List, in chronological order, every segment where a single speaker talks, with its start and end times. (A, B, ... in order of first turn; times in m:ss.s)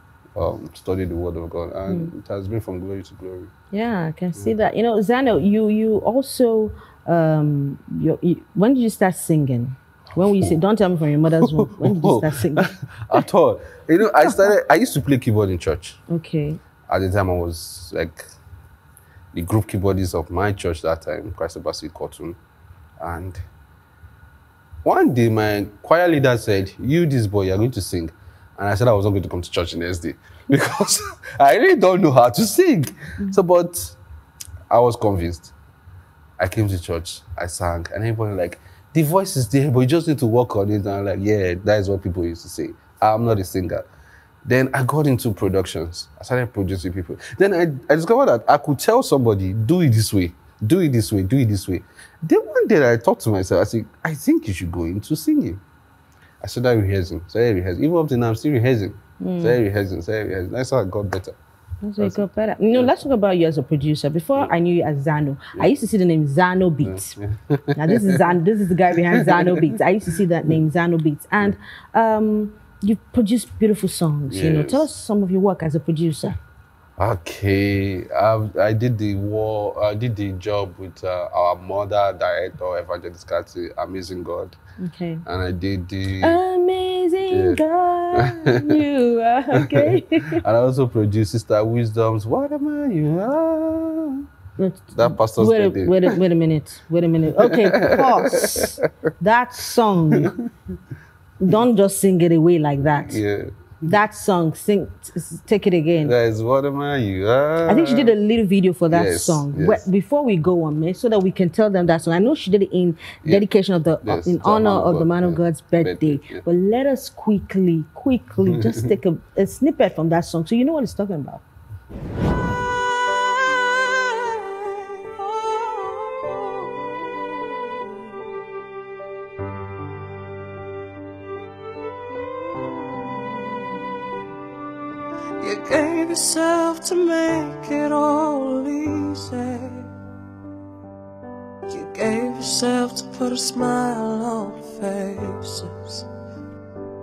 0:00.4-0:03.5 A
0:03.7-0:12.7 B
0:11.4-0:16.0 A
0:16.1-0:16.6 B
0:16.9-0:18.2 A
0:19.3-0:22.4 A
0:23.0-0:23.4 A
0:24.8-0:34.0 A
0:34.7-0:35.5 A
0:36.4-0:43.9 A
0:44.4-0:55.6 A
0:56.4-1:01.4 A
0:59.2-0:59.6 B
1:01.8-1:07.2 B
1:06.8-1:08.2 A
1:07.8-1:16.4 B
1:09.2-1:09.6 A
1:14.3-1:14.8 A
1:17.0-1:24.6 A
1:24.8-1:25.2 B
1:25.2-1:26.4 A
1:26.2-1:30.4 B
1:27.3-1:27.6 A
1:28.1-1:28.8 A
1:29.5-1:34.2 A
1:34.6-1:40.3 B
1:34.9-1:36.2 A
1:37.3-1:38.9 A
1:41.4-1:43.2 B
1:42.9-1:43.9 A
1:43.8-1:46.1 B
1:46.0-1:48.2 A
1:47.7-2:01.4 B
1:48.9-1:49.8 A
1:54.0-1:56.4 A
1:58.5-1:58.9 A
2:02.3-2:08.1 C
2:12.1-2:13.8 C
2:15.4-2:19.9 C
2:21.7-2:26.0 C